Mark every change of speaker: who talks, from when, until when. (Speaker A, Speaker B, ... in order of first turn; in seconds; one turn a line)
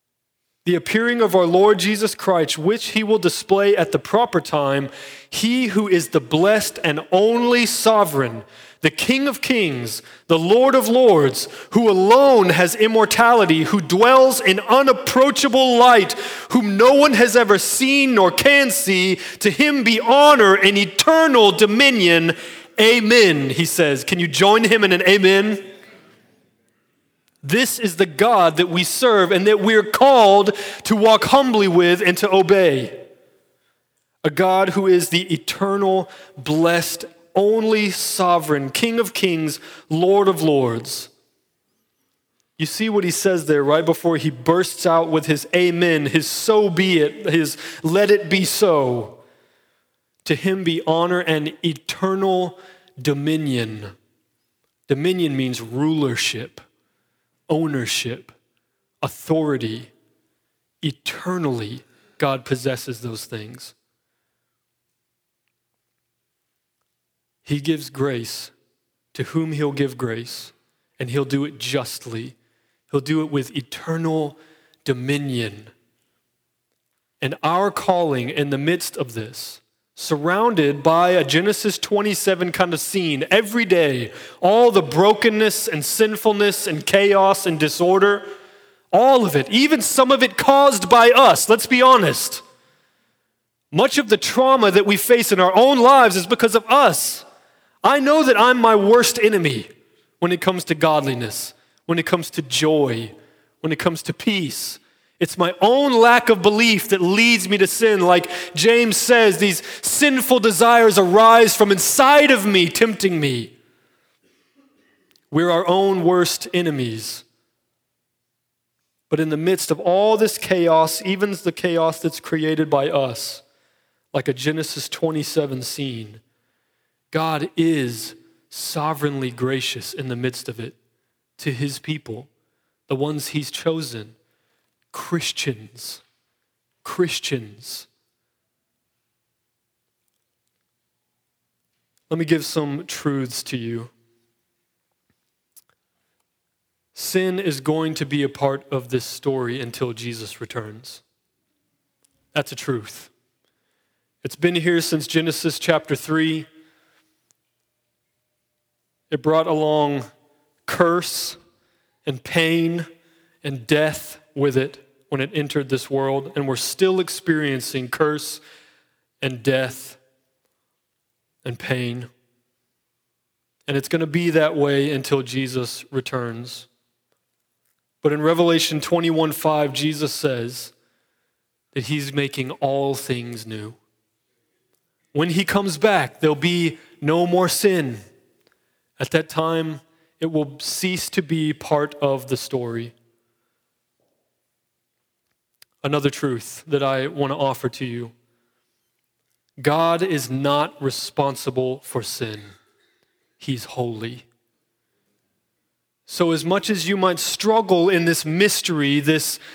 Speaker A: 0.7-25.6
Speaker A: 27.4-33.0
Speaker A: 34.2-41.1
Speaker A: 42.6-49.2
Speaker A: 50.2-53.9
Speaker A: 54.9-56.6
Speaker A: 57.5-58.4
Speaker A: 59.0-59.9
Speaker A: 60.8-63.7
Speaker A: 67.5-68.5
Speaker A: 69.1-72.4
Speaker A: 72.9-75.7
Speaker A: 77.2-88.3
Speaker A: 88.9-92.4
Speaker A: 93.7-97.2
Speaker A: 97.8-113.5
Speaker A: 115.3-117.2
Speaker A: 119.1-123.4
Speaker A: 124.1-126.2
Speaker A: 127.1-130.8
Speaker A: 131.4-132.3
Speaker A: 132.9-134.2
Speaker A: 134.9-136.0
Speaker A: 136.8-137.9
Speaker A: 142.1-143.9
Speaker A: 146.9-151.0
Speaker A: 152.3-153.1
Speaker A: 154.2-156.5
Speaker A: 159.1-160.0
Speaker A: 160.7-161.4
Speaker A: 162.1-162.9
Speaker A: 163.4-168.4
Speaker A: 169.2-170.0
Speaker A: 171.4-172.1
Speaker A: 173.7-176.7
Speaker A: 178.0-180.7
Speaker A: 181.7-183.8
Speaker A: 185.1-188.0
Speaker A: 189.0-192.9
Speaker A: 195.8-198.1
Speaker A: 199.6-202.4
Speaker A: 203.4-204.3
Speaker A: 206.1-209.4